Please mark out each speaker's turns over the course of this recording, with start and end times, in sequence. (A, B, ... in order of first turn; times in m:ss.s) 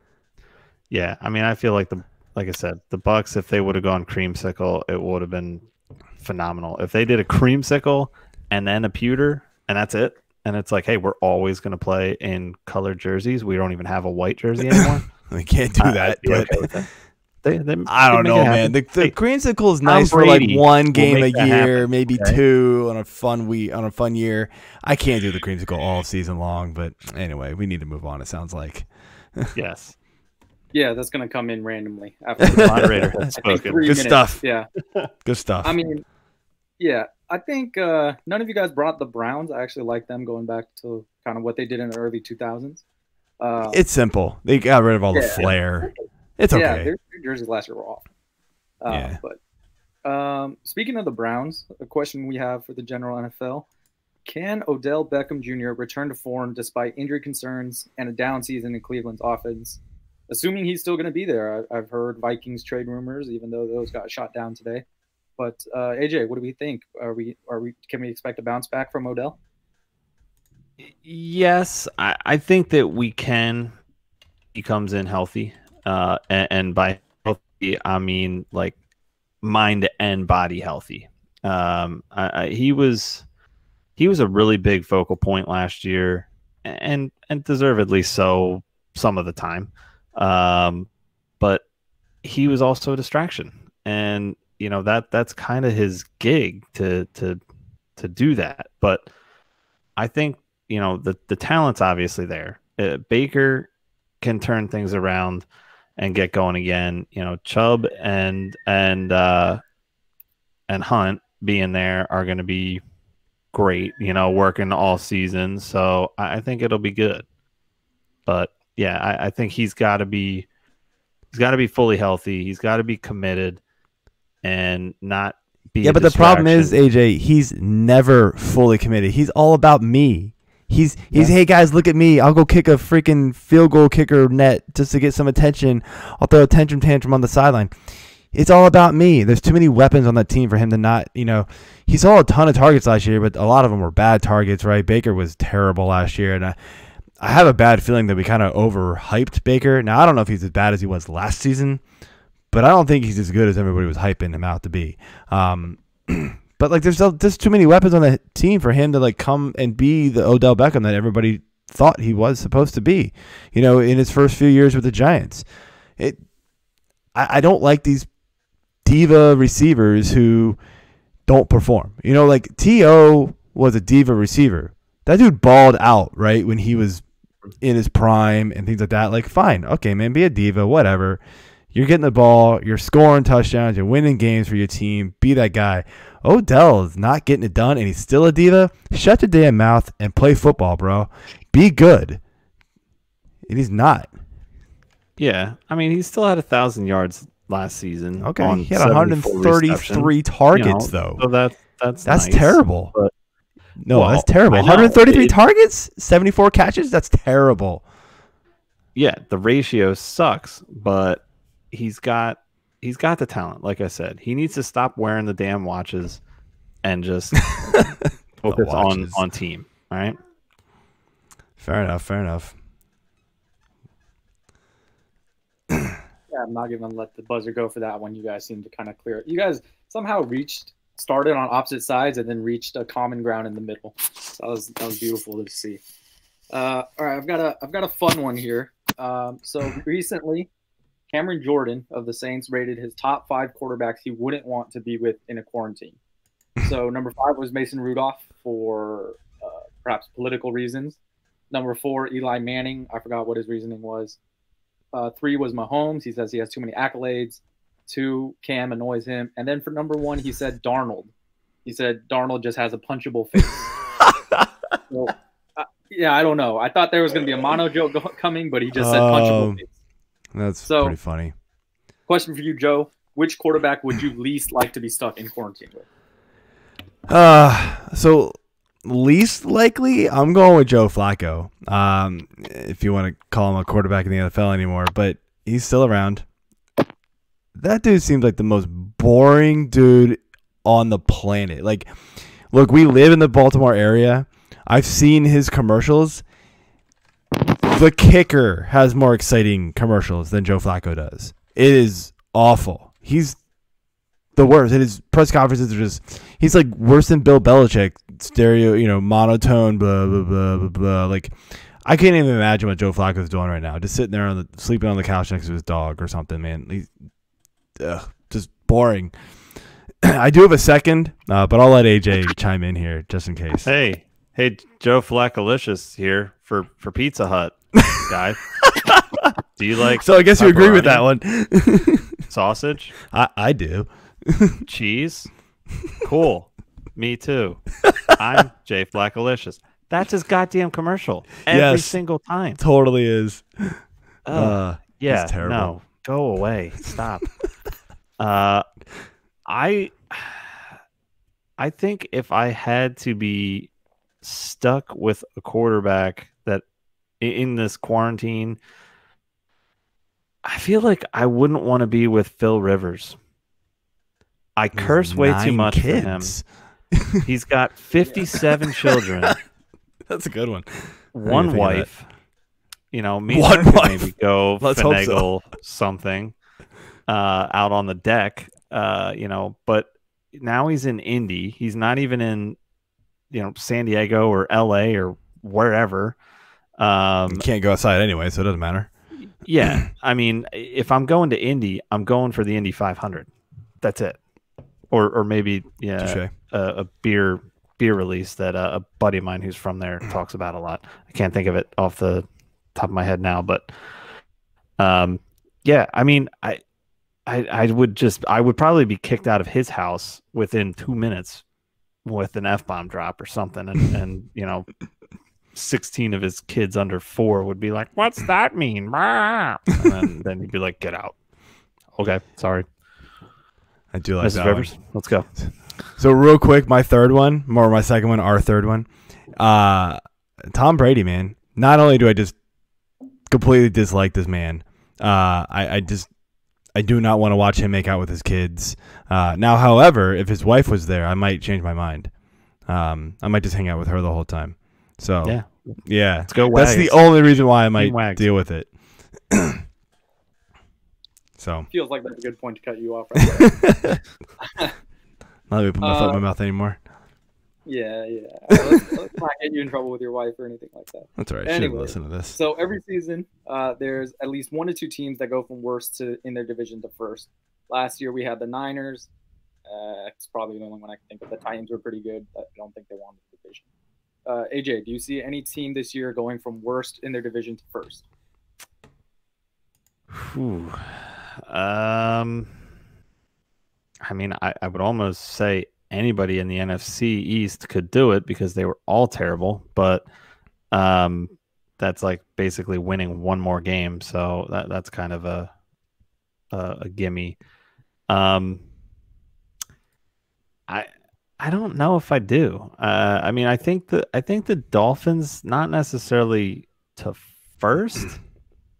0:00.9-0:05.6 A
0:06.2-0:15.0 A
0:14.7-0:16.7 B
0:15.8-0:16.9 A
0:17.4-0:19.1 A
0:17.8-0:29.5 B
0:19.8-0:22.4 A
0:29.5-0:29.9 A
0:30.7-0:34.7 C
0:32.4-0:33.1 B
0:32.5-0:34.0 A
0:33.8-0:34.4 B
0:35.2-0:35.7 B
0:35.6-0:36.0 C
0:36.8-0:42.8 C
0:43.4-0:43.8 C
0:43.7-0:46.9 B
0:45.1-0:48.0 C
0:48.8-0:49.4 C
0:48.9-0:49.2 B
0:50.0-0:53.6 C
0:54.2-1:04.8 C
1:05.4-1:09.4 C
1:10.8-1:13.7 A
1:14.5-1:18.8 A
1:19.4-1:23.2 A
1:24.0-1:30.9 A
1:32.2-1:37.4 A
1:38.0-1:39.1 A
1:40.0-1:43.7 A
1:44.2-1:45.4 A
1:46.0-1:49.6 A
1:50.7-1:52.8 A
1:53.5-1:57.2 A
1:58.3-2:00.5 A
2:01.3-2:03.6 A
2:04.4-2:06.8 A
2:05.8-2:17.7 B
2:18.3-2:26.6 B
2:27.2-2:31.8 B
2:32.5-2:45.4 B
2:46.0-2:46.2 B
2:47.1-2:48.1 B
2:48.8-2:50.6 B
2:51.2-2:57.0 B
2:57.6-3:01.2 B
3:01.7-3:12.2 B
3:13.5-3:14.1 B
3:15.2-3:23.1 A
3:18.2-3:21.2 B
3:22.0-3:22.9 B
3:23.8-3:27.8 B
3:23.9-3:25.3 A
3:28.9-3:36.2 A
3:36.8-3:37.9 A
3:37.5-3:37.9 B
3:38.4-3:40.2 A
3:38.4-3:39.2 B
3:41.6-3:42.5 B
3:46.3-3:55.8 C
3:56.5-4:00.5 C
4:01.1-4:06.0 C
4:06.6-4:11.0 C
4:11.5-4:14.2 C
4:14.9-4:21.1 C
4:21.6-4:23.7 C
4:24.9-4:29.7 C
4:28.7-4:29.6 B
4:30.3-4:31.3 B
4:30.6-4:31.0 C
4:32.1-4:35.8 C
4:37.1-4:46.2 B
4:47.5-4:56.2 B
4:57.6-5:03.4 B
5:04.4-5:16.9 B
5:17.8-5:19.1 B
5:20.0-5:23.7 B
5:23.6-5:28.5 A
5:28.6-5:29.3 B
5:29.5-5:31.0 A
5:30.0-5:32.2 B
5:32.3-5:33.0 A
5:33.1-5:34.6 B
5:34.7-5:35.3 A
5:36.0-5:42.6 A
5:37.8-5:38.4 B
5:41.5-5:42.0 B
5:42.6-5:43.8 B
5:44.2-5:47.3 A
5:44.3-5:45.7 B
5:48.2-5:48.6 A
5:49.4-5:50.6 A
5:51.6-5:53.7 A
5:54.2-5:56.6 A
5:57.2-5:58.6 A
6:00.4-6:03.2 A
6:04.6-6:06.4 A
6:04.7-6:07.2 B
6:07.2-6:09.4 A
6:08.3-6:09.3 B
6:10.1-6:11.9 B
6:11.1-6:12.1 A
6:12.9-6:16.3 A
6:13.3-6:14.1 B
6:14.6-6:15.2 B
6:17.1-6:22.6 A
6:23.3-6:26.2 A
6:26.8-6:27.4 A
6:27.3-6:28.9 B
6:29.4-6:33.3 A
6:33.8-6:34.2 A
6:34.9-6:43.7 A
6:36.0-6:36.3 B
6:44.8-6:46.6 A
6:47.2-6:51.4 A
6:52.0-6:54.7 A
6:55.5-7:01.1 A
7:02.0-7:02.6 A
7:03.9-7:04.7 B
7:04.2-7:05.3 A
7:06.0-7:12.3 B
7:13.3-7:16.1 B
7:16.7-7:22.1 B
7:22.7-7:29.6 B
7:25.2-7:28.3 A
7:31.4-7:31.7 B
7:31.7-7:33.7 C
7:33.3-7:34.0 B
7:34.4-7:34.7 C
7:35.5-7:36.8 B
7:35.8-7:36.2 C
7:37.6-7:49.1 C
7:41.2-7:42.4 B
7:49.7-7:53.6 C
7:54.2-7:58.0 C
8:00.1-8:02.5 A
8:04.0-8:10.0 A
8:10.7-8:15.5 A
8:16.5-8:17.4 A
8:18.1-8:18.6 A
8:20.7-8:28.2 A